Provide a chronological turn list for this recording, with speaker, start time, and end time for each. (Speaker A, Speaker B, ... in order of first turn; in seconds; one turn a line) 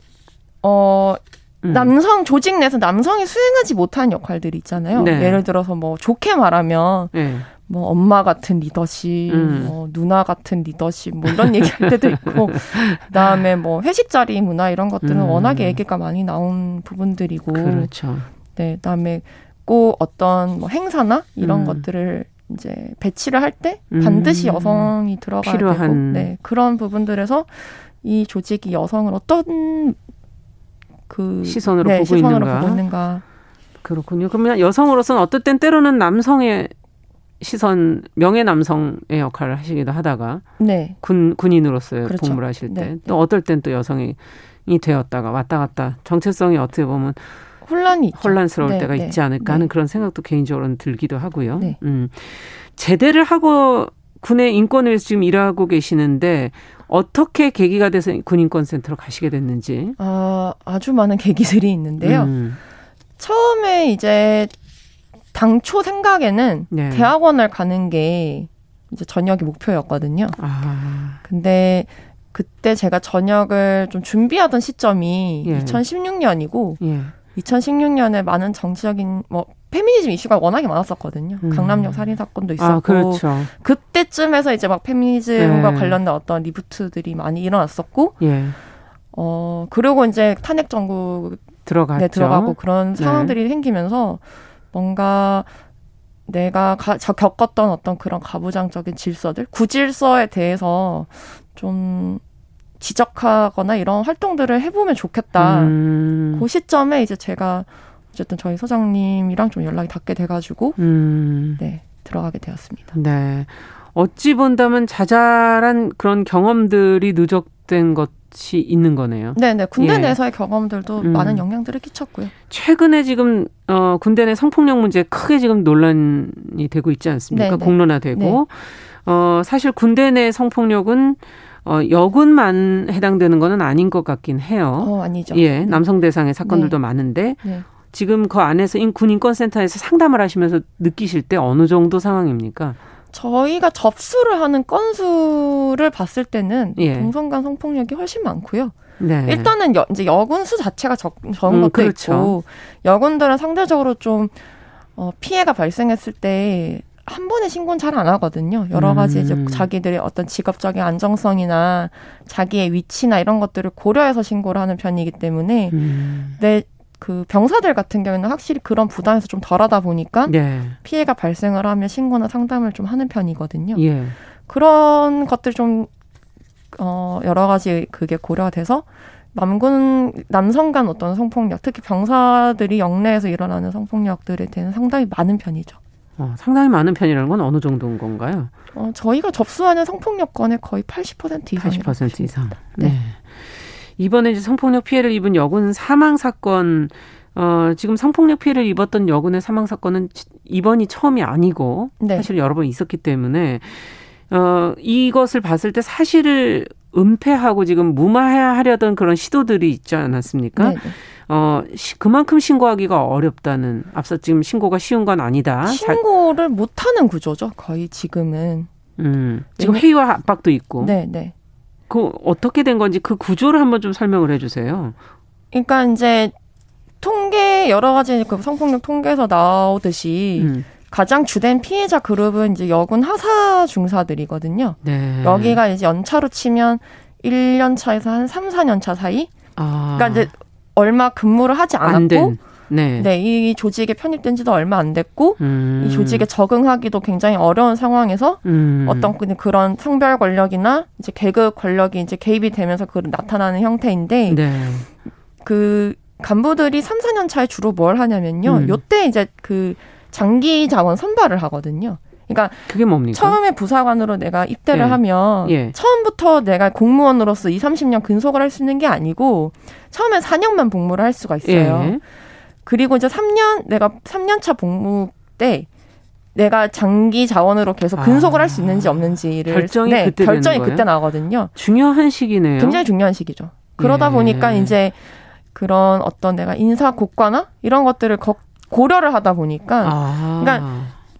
Speaker A: 0.6-17.9
Speaker B: 1.6-1.9
Speaker B: 4.9-5.4
Speaker B: 7.1-7.5
Speaker B: 9.3-9.7
Speaker B: 11.3-13.4
Speaker B: 15.0-15.8
Speaker B: 17.5-18.3
Speaker A: 18.5-30.0
Speaker B: 21.4-21.8
Speaker B: 23.9-26.3
Speaker A: 31.1-33.2
Speaker B: 31.4-32.8
Speaker B: 33.8-36.7
Speaker B: 37.4-40.4
Speaker A: 40.6-41.0
Speaker B: 41.0-47.4
Speaker A: 42.0-42.9
Speaker A: 47.6-49.7
Speaker B: 48.1-60.0
Speaker A: 60.0-62.3
Speaker B: 62.0-62.6
Speaker A: 63.2-64.5
Speaker A: 65.3-70.4
Speaker B: 66.7-67.1
Speaker B: 70.4-71.2
Speaker A: 71.2-88.2
Speaker B: 75.5-75.8
Speaker B: 76.8-77.2
Speaker B: 81.4-83.5
Speaker B: 85.4-86.0
Speaker B: 88.2-88.5
Speaker A: 89.1-94.2
Speaker B: 91.7-93.3
Speaker A: 94.7-95.5
Speaker A: 96.3-102.2
Speaker A: 102.8-105.7
Speaker B: 105.3-106.5
Speaker A: 106.3-110.8
Speaker B: 110.8-111.6
Speaker A: 111.6-112.9
Speaker B: 112.9-120.2
Speaker A: 119.3-122.3
Speaker B: 121.0-121.4
Speaker B: 122.5-142.8
Speaker A: 127.3-128.4
Speaker A: 134.8-135.8
Speaker A: 136.4-136.8
Speaker A: 143.1-154.3
Speaker B: 146.8-147.1
Speaker B: 149.0-149.5
Speaker B: 151.5-152.4
Speaker A: 154.9-165.8
Speaker B: 158.7-159.7
Speaker B: 165.7-166.4
Speaker A: 166.4-173.8
Speaker B: 170.3-170.8
Speaker B: 173.8-174.1
Speaker A: 174.5-175.9
Speaker A: 176.7-185.8
Speaker B: 186.2-188.5
Speaker A: 188.7-192.9
Speaker B: 191.6-216.0
Speaker A: 202.0-202.3
Speaker A: 210.6-210.9
Speaker A: 215.6-218.7
Speaker B: 219.0-220.9
Speaker A: 219.6-219.8
Speaker A: 220.8-221.3
Speaker B: 221.9-224.9
Speaker A: 225.5-226.3
Speaker A: 227.0-239.3
Speaker B: 230.4-230.7
Speaker B: 234.8-235.6
Speaker B: 239.6-240.3
Speaker A: 239.9-242.3
Speaker B: 241.8-243.1
Speaker A: 243.0-254.4
Speaker B: 245.4-246.2
Speaker B: 248.4-249.1
Speaker B: 254.3-254.9
Speaker A: 255.4-272.0
Speaker B: 258.4-258.8
Speaker B: 262.7-263.4
Speaker B: 264.7-265.8
Speaker B: 271.4-272.0
Speaker A: 272.6-275.7
Speaker A: 276.3-281.5
Speaker B: 277.9-280.9
Speaker B: 281.5-282.8
Speaker A: 282.6-285.0
Speaker B: 283.8-284.7
Speaker A: 285.5-290.7
Speaker B: 289.8-290.9